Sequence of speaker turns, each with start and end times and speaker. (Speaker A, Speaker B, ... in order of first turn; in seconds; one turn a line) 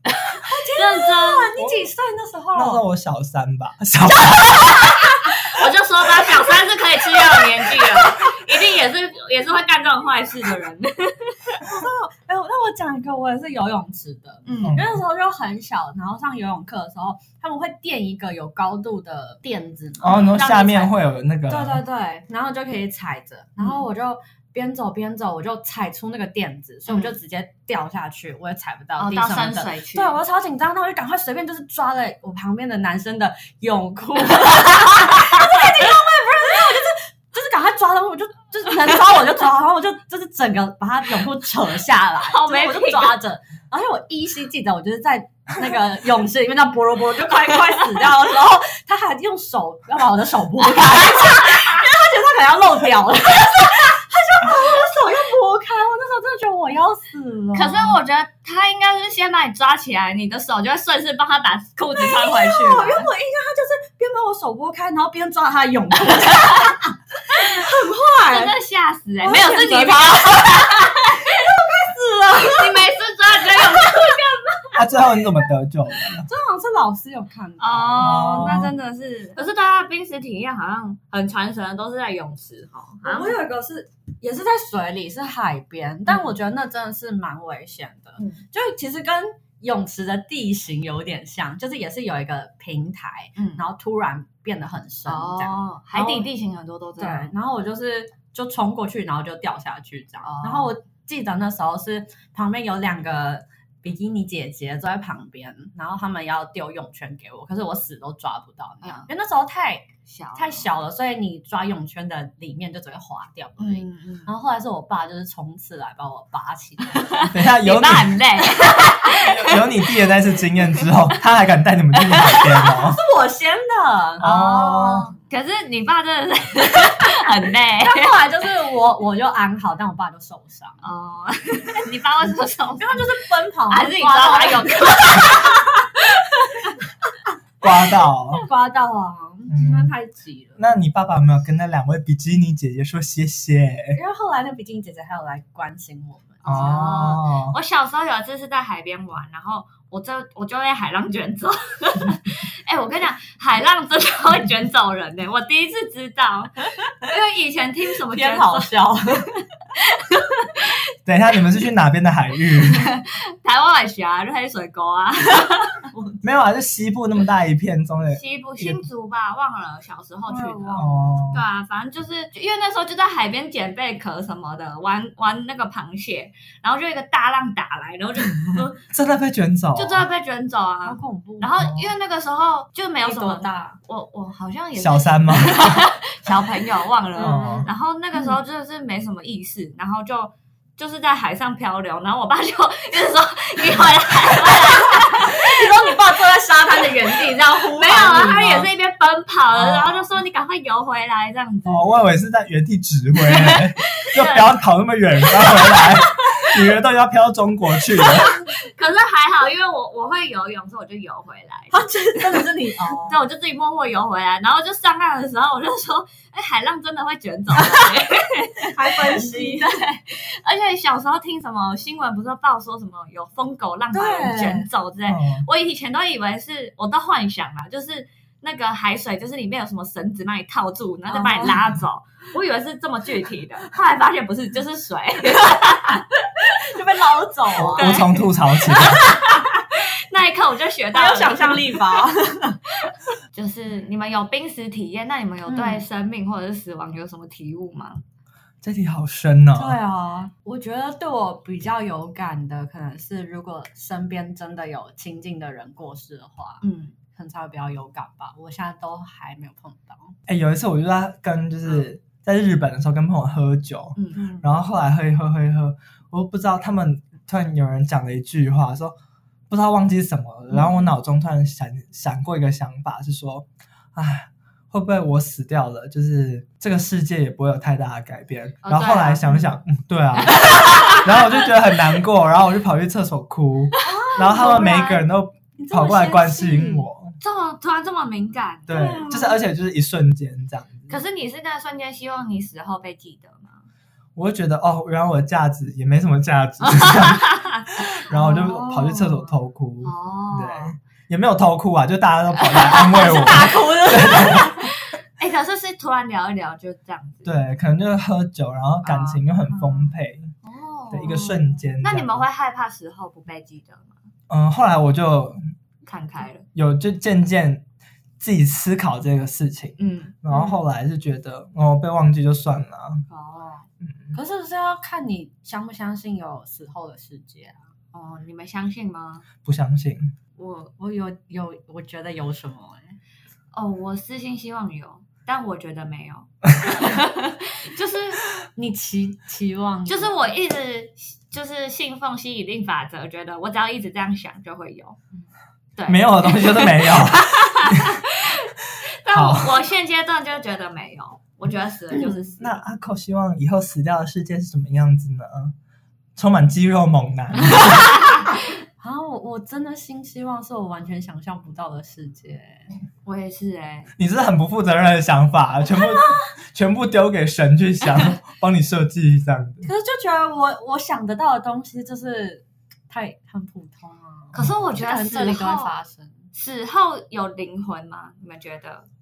Speaker A: 0.2-1.5
Speaker B: 0.4-2.8
Speaker C: 1.6-1.9
Speaker C: 2.5-4.9
Speaker B: 4.4-5.0
Speaker A: 5.2-11.7
Speaker B: 7.3-8.2
Speaker B: 11.6-20.4
Speaker A: 14.4-14.8
Speaker C: 14.6-15.0
Speaker C: 20.0-21.8
Speaker A: 20.0-20.9
Speaker B: 21.5-58.0
Speaker A: 23.6-23.8
Speaker A: 26.9-27.1
Speaker A: 29.0-30.2
Speaker A: 42.2-43.2
Speaker A: 57.5-63.1
Speaker B: 62.0-68.5
Speaker A: 67.4-67.7
Speaker A: 68.2-71.4
Speaker B: 69.2-72.9
Speaker A: 72.4-74.8
Speaker B: 73.5-74.2
Speaker C: 74.7-76.3
Speaker B: 76.2-78.7
Speaker A: 77.6-83.4
Speaker C: 78.0-78.7
Speaker B: 83.0-96.3
Speaker A: 88.2-88.4
Speaker A: 93.4-93.6
Speaker A: 95.0-97.3
Speaker B: 97.0-117.3
Speaker A: 100.2-100.7
Speaker A: 108.8-109.1
Speaker A: 110.1-110.6
Speaker A: 113.6-114.3
Speaker A: 117.0-119.9
Speaker C: 117.3-118.2
Speaker C: 119.1-123.0
Speaker B: 122.3-124.3
Speaker A: 124.2-128.2
Speaker C: 124.2-125.1
Speaker B: 127.8-130.8
Speaker A: 130.8-136.7
Speaker B: 132.8-135.7
Speaker C: 137.6-138.4
Speaker B: 138.3-140.6
Speaker C: 139.5-139.9
Speaker C: 140.6-144.0
Speaker B: 143.9-146.8
Speaker A: 146.4-159.2
Speaker C: 146.4-147.6
Speaker B: 158.1-159.3
Speaker A: 159.8-160.8
Speaker C: 161.1-162.9
Speaker A: 162.5-165.9
Speaker B: 165.9-166.2
Speaker C: 166.2-168.8
Speaker A: 168.1-178.8
Speaker B: 170.3-171.2
Speaker C: 170.7-171.4
Speaker C: 178.9-180.0
Speaker A: 179.7-195.5
Speaker B: 180.8-181.6
Speaker C: 181.6-181.9
Speaker B: 183.0-183.8
Speaker C: 184.7-185.9
Speaker B: 187.2-188.4
Speaker C: 187.2-187.7
Speaker B: 195.1-198.7
Speaker A: 197.7-201.8
Speaker C: 199.6-199.9
Speaker C: 201.7-208.4
Speaker A: 203.3-204.6
Speaker A: 205.3-206.6
Speaker A: 207.9-212.5
Speaker B: 211.7-213.2
Speaker A: 213.0-236.1
Speaker B: 218.6-219.7
Speaker B: 223.9-224.7
Speaker C: 225.1-225.4
Speaker B: 231.1-231.6
Speaker B: 236.4-238.0
Speaker C: 237.5-239.0
Speaker A: 237.7-241.9
Speaker B: 240.9-242.6
Speaker A: 242.8-248.0
Speaker B: 245.5-245.8
Speaker C: 248.6-249.8
Speaker B: 249.6-260.1
Speaker A: 256.6-256.9
Speaker C: 260.3-268.9
Speaker A: 264.0-264.4
Speaker C: 269.5-287.2
Speaker A: 278.6-279.4
Speaker A: 280.4-281.2
Speaker B: 280.5-281.0
Speaker B: 283.8-285.0
Speaker B: 285.6-286.9
Speaker A: 287.2-289.2
Speaker C: 288.7-291.0
Speaker B: 288.7-289.4
Speaker A: 290.9-293.6
Speaker C: 294.1-304.6
Speaker A: 296.8-298.4
Speaker B: 298.2-299.3
Speaker A: 299.8-300.7
Speaker A: 302.4-303.1
Speaker B: 302.7-304.6
Speaker A: 304.6-307.3
Speaker C: 307.2-310.3
Speaker A: 308.8-309.9
Speaker A: 310.4-314.0
Speaker C: 310.9-312.2
Speaker C: 314.3-315.4
Speaker A: 315.8-316.4
Speaker C: 316.5-317.6
Speaker C: 318.2-323.1
Speaker A: 319.8-320.6
Speaker A: 323.1-323.7
Speaker C: 323.8-324.1
Speaker B: 324.1-327.6
Speaker A: 327.9-329.3
Speaker C: 329.4-330.1
Speaker A: 330.4-330.7
Speaker B: 330.8-333.0
Speaker A: 333.5-338.2
Speaker B: 338.6-340.2
Speaker A: 339.9-345.0
Speaker A: 345.8-352.6
Speaker C: 345.9-348.0
Speaker C: 349.1-349.6
Speaker C: 352.4-355.5
Speaker C: 356.1-357.9
Speaker A: 357.6-358.3
Speaker B: 358.8-362.7
Speaker A: 363.0-363.9
Speaker C: 364.0-369.7
Speaker B: 369.6-376.3
Speaker A: 374.3-375.8
Speaker C: 374.3-374.8
Speaker A: 376.3-378.9